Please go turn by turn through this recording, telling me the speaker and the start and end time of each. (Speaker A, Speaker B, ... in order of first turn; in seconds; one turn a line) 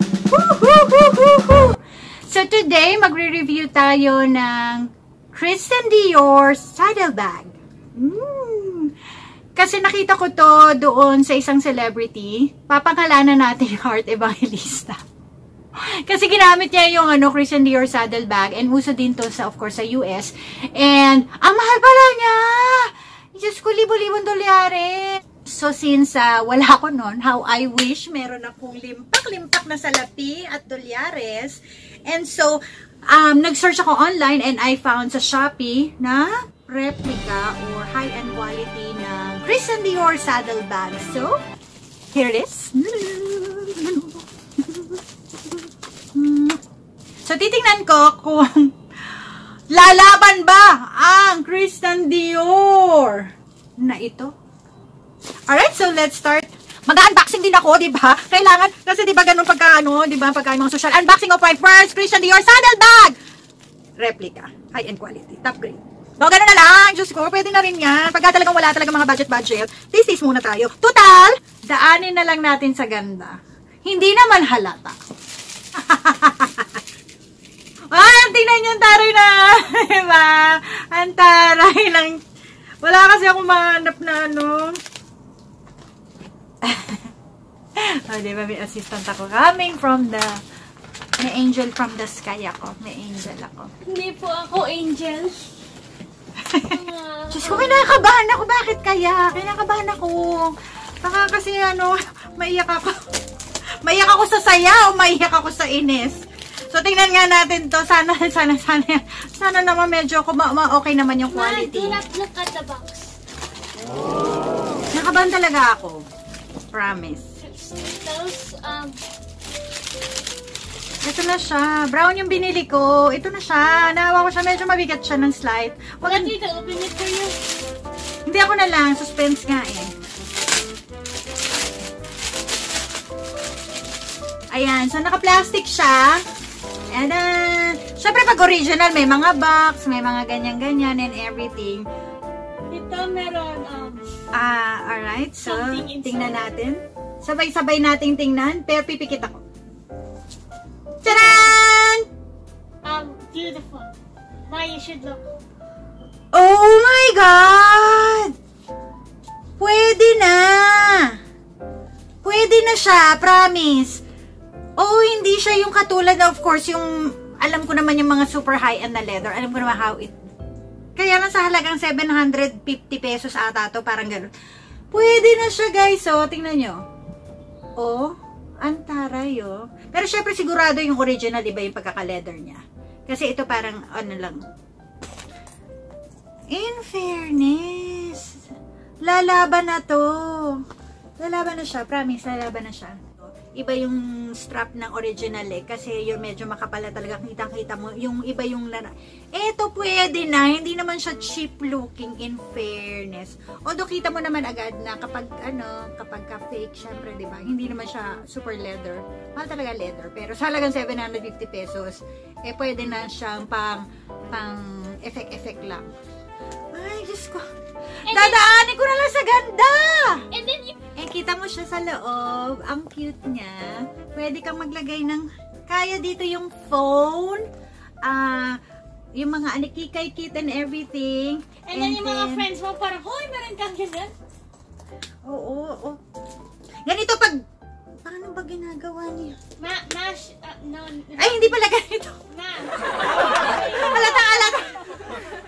Speaker A: 0.3-8.9
Speaker A: 9.6-15.0
Speaker A: 15.8-41.4
Speaker A: 42.1-45.0
Speaker A: 46.1-46.6
Speaker A: 47.2-54.3
Speaker A: 55.5-63.1
Speaker A: 64.0-75.0
Speaker A: 75.8-76.8
Speaker A: 77.9-82.2
Speaker A: 82.8-84.8
Speaker A: 86.6-87.1
Speaker A: 87.8-90.4
Speaker A: 91.2-93.7
Speaker B: 93.8-95.5
Speaker A: 96.4-96.8
Speaker B: 96.7-97.9
Speaker A: 97.3-102.9
Speaker A: 103.8-112.0
Speaker B: 111.3-113.1
Speaker A: 114.9-116.0
Speaker A: 116.7-117.3
Speaker B: 117.4-119.0
Speaker A: 121.0-126.3
Speaker B: 126.0-127.4
Speaker A: 128.2-129.9
Speaker A: 134.5-136.2
Speaker A: 136.9-141.8
Speaker B: 142.7-144.1
Speaker A: 144.3-149.4
Speaker B: 145.4-146.3
Speaker B: 151.0-151.6
Speaker A: 151.0-152.0
Speaker B: 152.8-153.9
Speaker B: 154.5-155.3
Speaker A: 156.3-158.3
Speaker A: 159.6-161.2
Speaker A: 162.2-164.0
Speaker A: 164.8-170.1
Speaker A: 170.9-174.3
Speaker A: 174.9-176.8
Speaker A: 177.8-184.4
Speaker A: 186.5-188.4
Speaker A: 189.0-190.6
Speaker A: 191.2-215.9
Speaker A: 216.7-217.4
Speaker B: 218.1-218.4
Speaker A: 218.1-220.2
Speaker B: 220.3-220.8
Speaker A: 221.0-227.4
Speaker A: 228.0-228.6
Speaker A: 229.2-232.4
Speaker B: 231.7-234.1
Speaker A: 235.2-236.0
Speaker A: 236.8-237.4
Speaker A: 238.0-239.4
Speaker B: 239.6-241.6
Speaker A: 241.2-242.2
Speaker B: 242.3-244.1
Speaker A: 243.6-245.2